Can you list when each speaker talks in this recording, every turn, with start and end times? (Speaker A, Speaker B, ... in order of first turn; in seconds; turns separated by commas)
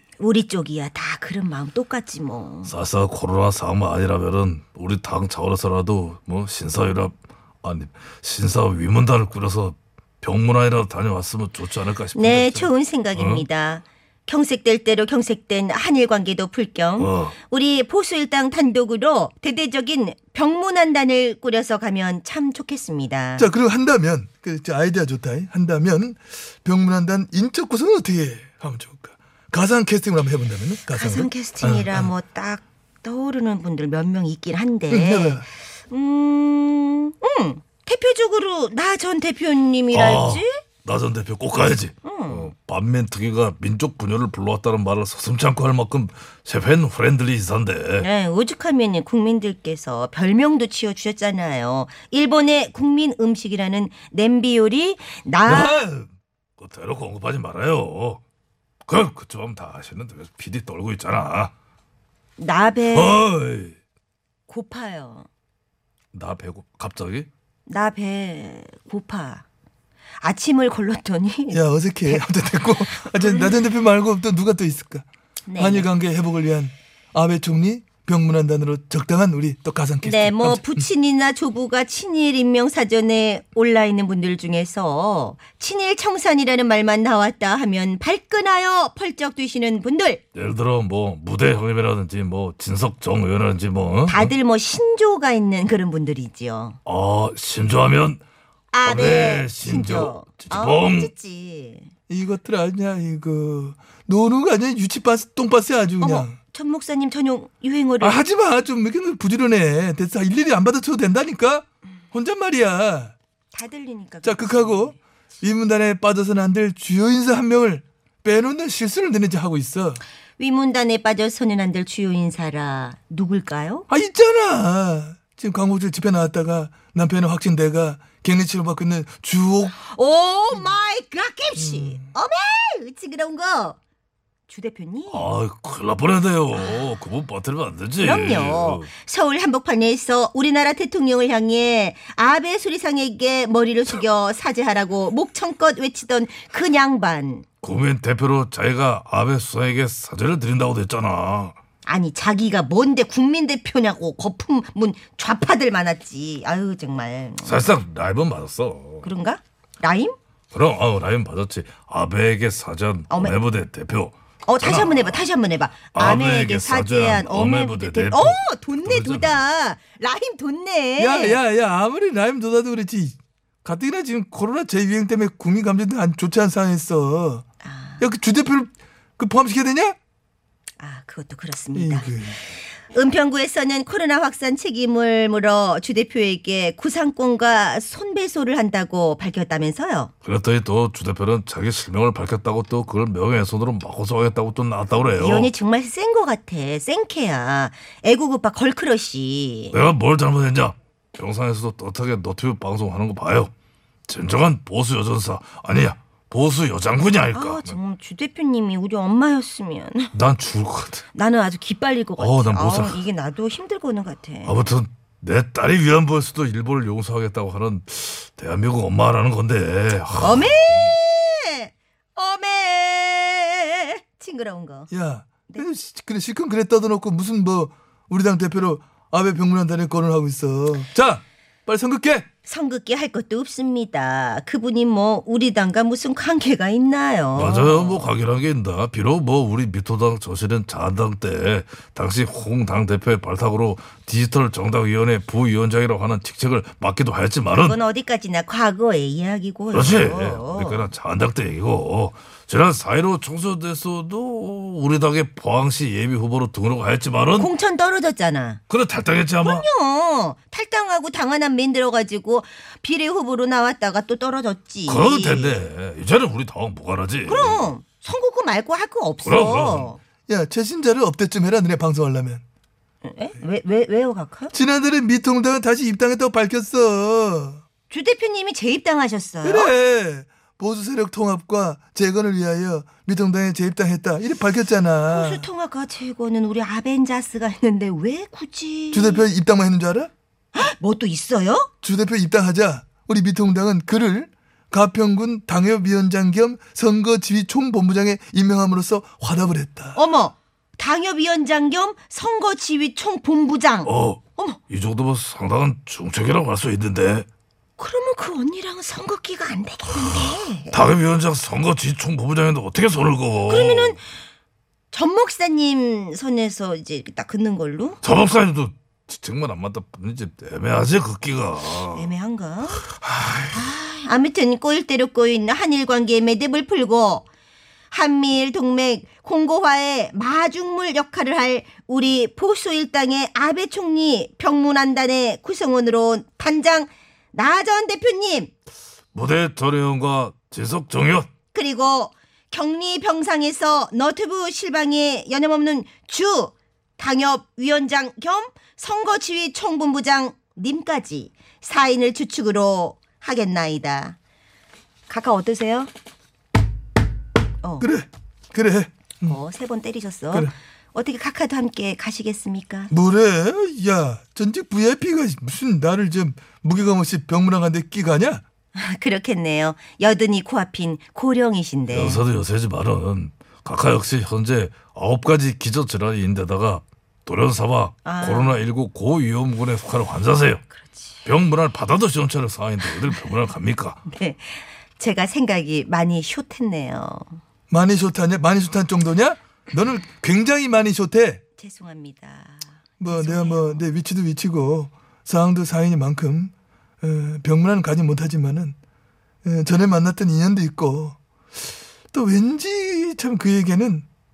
Speaker A: 0.2-2.7, Speaker B: 2.6-13.4, Speaker A: 12.2-23.5, Speaker B: 17.0-17.4, Speaker C: 23.4-32.1, Speaker A: 30.9-40.6, Speaker C: 34.9-35.5, Speaker B: 39.9-48.1, Speaker A: 42.0-42.5, Speaker A: 48.0-55.8, Speaker B: 55.5-58.2, Speaker B: 58.9-61.5, Speaker A: 62.4-63.2, Speaker B: 62.9-63.8, Speaker A: 64.5-65.3, Speaker B: 66.1-67.3, Speaker A: 67.7-69.5, Speaker A: 70.2-72.2, Speaker C: 71.5-75.1, Speaker A: 73.0-73.6, Speaker A: 75.5-75.9, Speaker C: 75.6-80.9, Speaker A: 80.0-90.2, Speaker B: 90.3-94.3, Speaker A: 94.1-96.8, Speaker B: 96.8-98.2, Speaker A: 98.7-101.9, Speaker B: 98.8-101.1, Speaker C: 102.1-106.4, Speaker A: 106.0-108.2, Speaker C: 108.0-113.1, Speaker A: 113.5-115.0, Speaker C: 114.2-120.0, Speaker A: 120.4-123.9, Speaker C: 123.9-129.8, Speaker A: 129.7-133.8, Speaker C: 131.6-132.1, Speaker A: 134.5-135.3, Speaker B: 135.1-138.9, Speaker A: 136.5-137.0, Speaker A: 138.0-147.5, Speaker B: 147.6-151.6, Speaker A: 151.9-157.6, Speaker B: 157.4-159.1, Speaker A: 159.0-160.2, Speaker B: 160.5-165.2, Speaker A: 163.1-163.4, Speaker A: 164.5-171.4, Speaker B: 165.9-169.4, Speaker C: 171.0-177.4, Speaker A: 177.6-178.1, Speaker C: 178.0-180.0, Speaker A: 180.8-182.1, Speaker C: 181.8-182.4, Speaker A: 182.9-190.1, Speaker B: 190.2-195.5, Speaker A: 195.1-199.8, Speaker B: 199.7-203.5, Speaker B: 204.1-207.8, Speaker A: 207.3-210.1, Speaker B: 210.1-211.1, Speaker A: 211.1-214.6, Speaker B: 212.2-213.1, Speaker B: 214.4-221.0, Speaker A: 220.2-224.9, Speaker C: 224.9-232.3, Speaker A: 232.4-238.1, Speaker B: 237.3-247.8, Speaker A: 247.5-250.9, Speaker B: 249.7-257.5, Speaker A: 257.4-258.6, Speaker B: 258.7-259.7, Speaker A: 259.4-265.6, Speaker B: 264.9-267.7, Speaker A: 267.2-270.0, Speaker B: 269.2-269.9, Speaker C: 270.3-272.4, Speaker A: 273.0-274.5, Speaker C: 274.5-277.6, Speaker A: 277.9-279.7, Speaker C: 279.4-285.5, Speaker A: 285.1-289.2, Speaker C: 288.9-290.1, Speaker A: 290.5-291.7, Speaker C: 291.8-300.0, Speaker A: 299.9-304.6, Speaker B: 303.9-307.3, Speaker A: 307.8-310.8, Speaker B: 310.1-314.0, Speaker A: 313.4-314.1, Speaker A: 314.9-318.0, Speaker B: 318.0-322.1, Speaker A: 321.9-322.9, Speaker B: 322.9-323.6, Speaker A: 323.5-327.3, Speaker A: 327.9-338.5, Speaker B: 339.1-341.3, Speaker A: 341.5-354.2, Speaker A: 355.1-355.9, Speaker A: 357.6-357.9, Speaker C: 357.8-359.4, Speaker A: 359.3-362.9, Speaker C: 362.9-368.4, Speaker A: 368.7-372.2, Speaker B: 371.9-380.6, Speaker A: 378.0-378.6, Speaker A: 380.7-381.2, Speaker B: 381.2-384.0, Speaker A: 384.1-387.4, Speaker C: 387.7-391.4, Speaker A: 391.6-393.9, Speaker C: 393.0-398.8, Speaker C: 399.4-401.2, Speaker C: 402.1-404.1